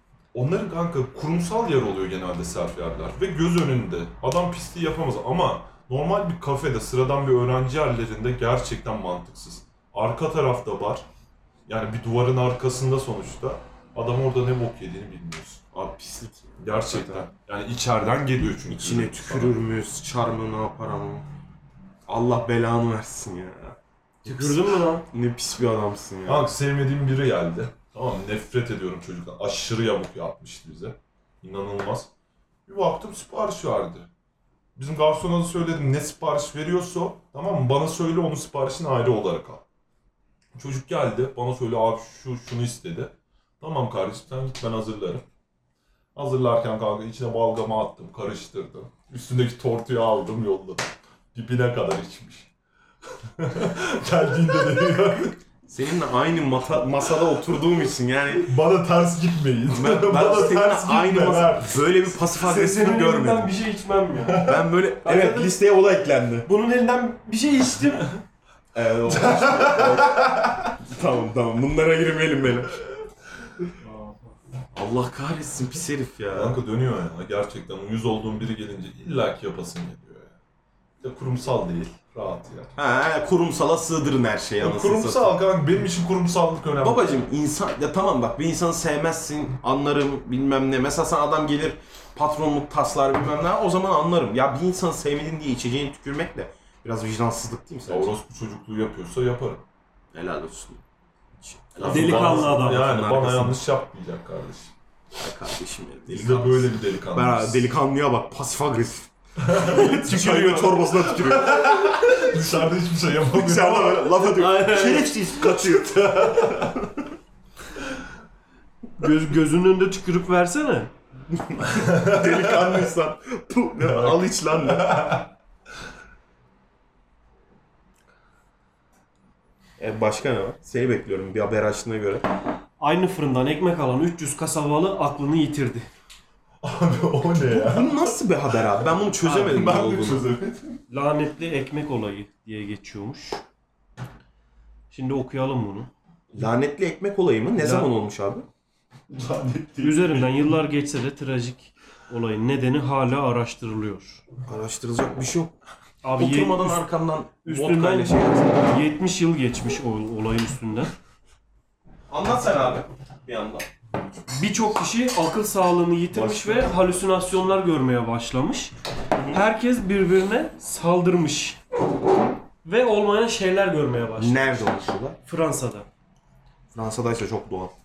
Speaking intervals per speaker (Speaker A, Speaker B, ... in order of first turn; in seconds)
Speaker A: 0.3-11.1, 11.7-15.6, 16.6-19.7, 26.3-32.1, 32.7-34.1, 34.8-39.6, 40.5-45.2, 46.1-52.5, 53.2-55.4, 58.4-61.9, 64.2-64.6, 69.1-70.7, 76.3-80.4, 81.0-82.7, 84.6-87.2, 97.9-99.6, 101.8-104.7, 106.1-107.7, 109.4-114.2, 115.6-116.8, 121.7-122.9, 123.8-125.3, 136.6-138.2, 138.8-140.8, 149.1-150.5
Speaker B: 15.7-17.3, 18.7-21.3, 22.1-26.5, 55.7-58.5, 59.7-63.5, 64.4-66.5, 68.7-72.8, 74.7-76.6, 82.8-85.4, 86.8-98.1, 100.1-100.8, 101.4-103.6, 105.2-112.3, 113.3-117.0, 121.3-125.2, 129.8-132.3, 137.5-140.3, 146.3-148.5, 154.5-155.5, 156.1-158.8, 162.1-163.7, 166.1-166.7, 169.2-169.4, 174.2-175.2, 176.7-177.7
Speaker C: 24.2-25.1, 62.3-65.5, 66.5-68.2, 101.8-102.9, 114.2-115.4, 119.0-120.9, 132.8-135.9, 140.9-143.4, 144.9-145.9, 147.6-147.9, 149.8-154.2, 156.0-156.9, 157.4-160.9, 164.3-168.7, 169.3-171.6, 172.6-174.6, 175.3-175.9